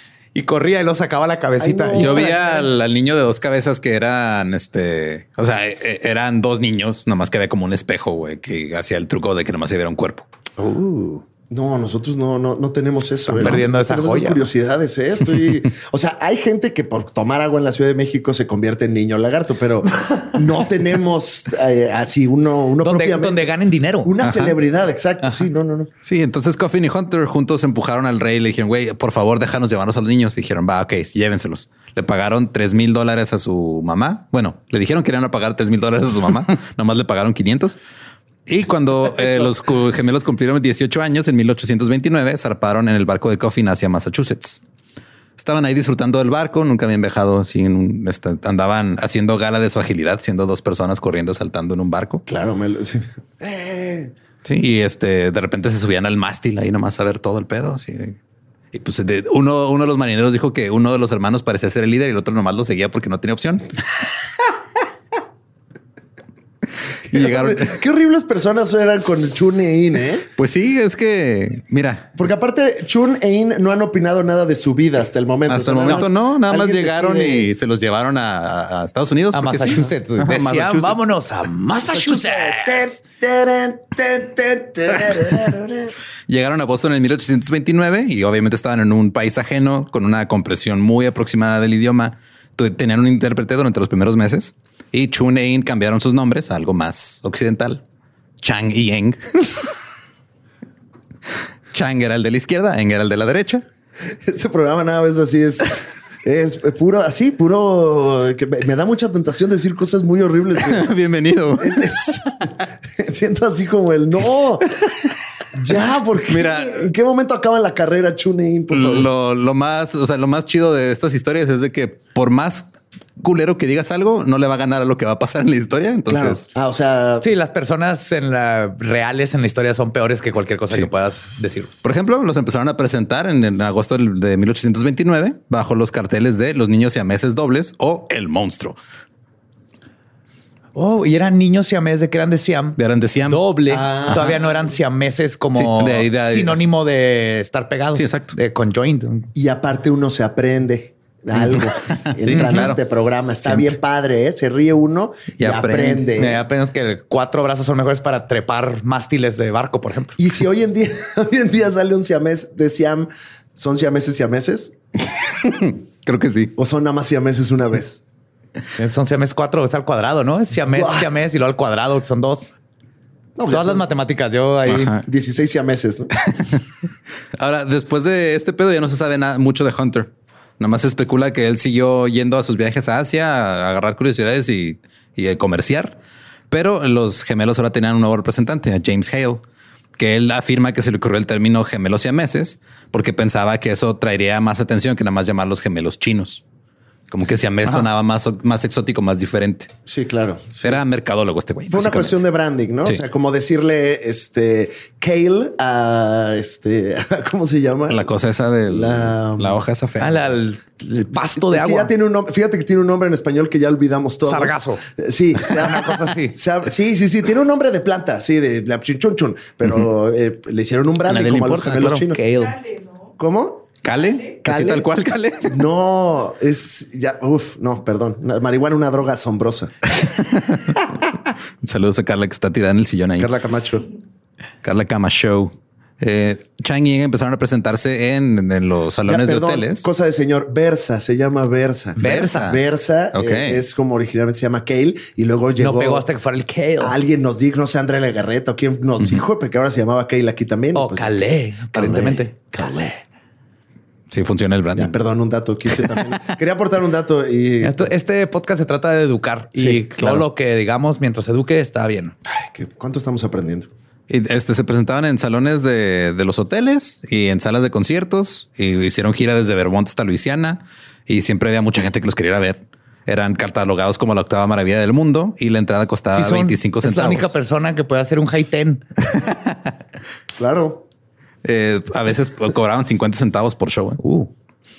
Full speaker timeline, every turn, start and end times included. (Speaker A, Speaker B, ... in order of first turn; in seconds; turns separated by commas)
Speaker A: 0.3-2.4, Speaker B: 1.6-2.7, Speaker C: 2.0-10.3, Speaker A: 10.6-11.2, Speaker B: 11.5-23.5, Speaker A: 13.3-14.4, Speaker A: 22.8-24.1, Speaker B: 24.0-25.9, Speaker C: 24.2-24.6, Speaker C: 26.0-37.8, Speaker C: 38.5-44.6, Speaker C: 45.4-52.2, Speaker B: 52.3-54.1, Speaker C: 54.4-58.2, Speaker C: 58.7-63.7, Speaker C: 67.1-67.8, Speaker B: 67.1-70.3, Speaker C: 70.4-72.1, Speaker B: 72.2-77.5, Speaker C: 75.5-81.0, Speaker A: 79.3-82.8, Speaker B: 81.9-85.9, Speaker C: 86.3-97.8, Speaker C: 98.4-99.2, Speaker C: 101.7-103.6, Speaker B: 104.2-111.0, Speaker C: 110.6-112.4, Speaker B: 111.6-114.7, Speaker B: 115.5-119.1, Speaker C: 116.3-116.9, Speaker C: 118.7-126.4, Speaker B: 126.1-127.3, Speaker A: 127.2-131.7, Speaker C: 131.8-138.8, Speaker A: 140.8-149.3, Speaker C: 142.8-143.4, Speaker B: 143.7-144.7, Speaker C: 144.1-144.4, Speaker C: 145.6-146.6, Speaker C: 147.9-148.3, Speaker B: 149.4-156.4, Speaker C: 151.3-152.8, Speaker A: 152.3-152.7, Speaker C: 153.5-153.7, Speaker C: 155.4-156.0, Speaker A: 156.2-160.2, Speaker B: 160.2-164.8, Speaker C: 165.3-166.5, Speaker B: 166.6-168.0, Speaker A: 168.8-172.5, Speaker B: 170.8-171.1, Speaker B: 173.4-173.8, Speaker A: 173.5-174.9, Speaker C: 174.7-175.0, Speaker B: 175.0-176.1, Speaker C: 176.3-176.6, Speaker C: 177.4-186.0, Speaker C: 186.5-189.4, Speaker C: 190.0-196.4, Speaker C: 197.1-199.7, Speaker B: 199.9-200.8, Speaker C: 200.6-202.2, Speaker B: 201.7-208.1, Speaker C: 207.9-210.3, Speaker B: 208.7-209.6, Speaker A: 210.0-211.9, Speaker B: 211.4-222.2, Speaker A: 214.2-214.8, Speaker A: 215.4-216.3, Speaker C: 221.1-222.1, Speaker A: 222.1-222.6, Speaker B: 223.2-223.7, Speaker C: 223.8-225.6, Speaker B: 224.4-224.9, Speaker B: 225.4-229.7, Speaker C: 230.0-231.0, Speaker C: 231.6-233.3, Speaker B: 233.2-233.9, Speaker C: 234.6-239.8, Speaker B: 239.1-246.1, Speaker A: 242.0-242.5, Speaker C: 242.0-242.6, Speaker C: 243.1-243.6, Speaker A: 245.6-247.0, Speaker B: 246.8-253.0, Speaker A: 250.8-252.5, Speaker C: 254.1-255.0, Speaker B: 254.8-257.9, Speaker A: 257.6-262.1, Speaker B: 259.6-259.8, Speaker C: 260.0-260.2, Speaker B: 262.3-263.7, Speaker C: 264.1-277.3, Speaker A: 276.1-278.8, Speaker C: 279.1-279.6, Speaker B: 280.4-280.8, Speaker C: 281.4-284.0, Speaker A: 284.0-284.3